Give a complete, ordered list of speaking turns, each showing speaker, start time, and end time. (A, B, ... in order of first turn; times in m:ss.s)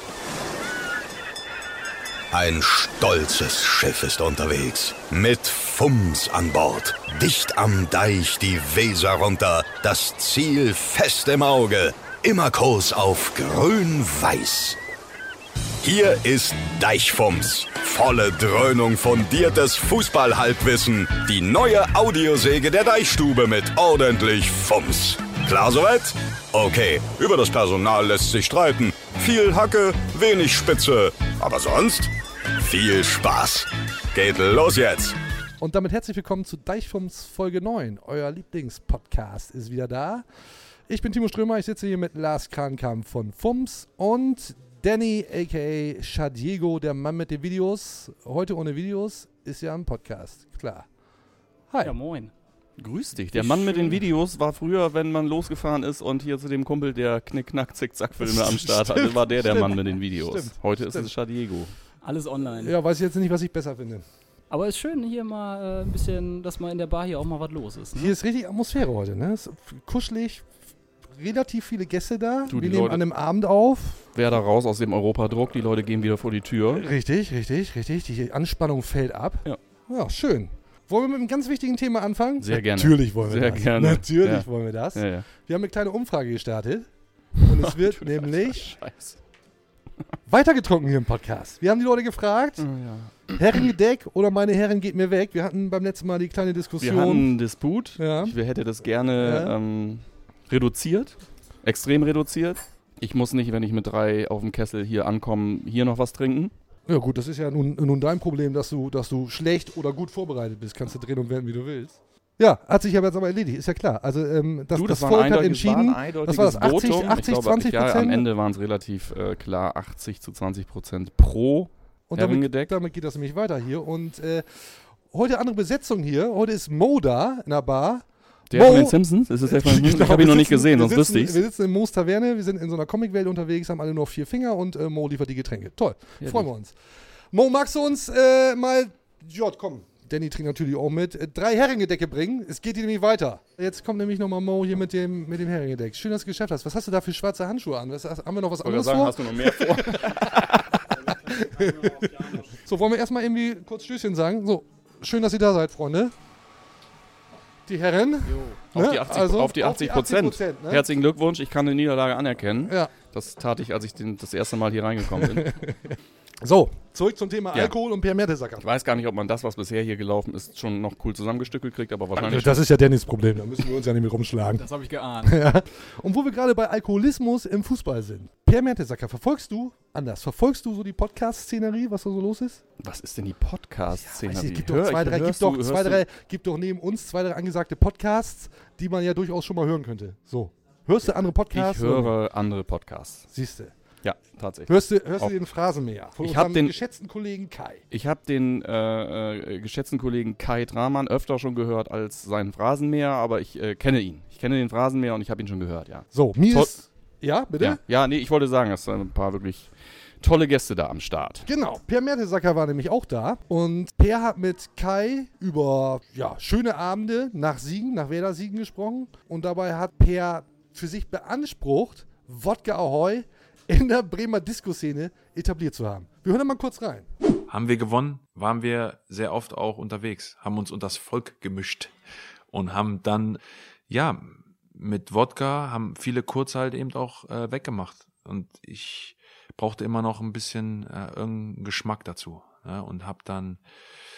0:02.3-0:14.8 A
0:15.8-0:35.2 A
0:35.6-0:40.2 B
0:40.9-0:50.8 B
0:51.8-0:52.3 C
0:52.8-1:01.7 D
0:53.3-0:54.0 B
0:58.2-1:01.1 B
1:02.0-1:02.8 C
1:02.5-1:04.0 B
1:04.5-1:08.1 C
1:07.9-1:10.4 B
1:11.2-1:14.0 B
1:12.5-1:13.0 D
1:14.1-1:16.8 D
1:16.7-1:26.9 B
1:22.4-1:25.2 D
1:27.4-1:28.6 B
1:27.5-1:29.2 D
1:30.3-1:32.6 B
1:32.6-1:33.3 D
1:33.4-1:37.3 B
1:36.8-1:46.5 D
1:38.0-1:38.3 B
1:39.2-1:39.5 B
1:46.9-1:58.2 B
1:54.7-2:02.7 D
2:02.1-2:04.4 B
2:05.1-2:16.7 B
2:08.5-2:11.4 D
2:17.3-2:36.1 B
2:28.6-2:30.6 D
2:37.7-2:40.8 B
2:38.7-2:45.6 D
2:42.7-2:42.9 B
2:45.2-2:48.6 B
2:48.6-2:52.7 D
2:52.2-2:54.6 B
2:54.5-2:55.4 C
2:55.2-3:02.6 B
3:02.8-3:06.0 D
3:04.0-3:12.1 B
3:11.5-3:13.3 D
3:13.3-3:13.7 B
3:14.0-3:15.3 D
3:14.7-3:17.8 B
3:16.2-3:16.7 D
3:17.9-3:26.7 D
3:26.1-3:27.8 B
3:27.6-3:29.7 D
3:30.2-3:31.5 D
3:31.5-3:47.1 B
3:47.5-3:51.9 E
3:52.5-4:03.6 E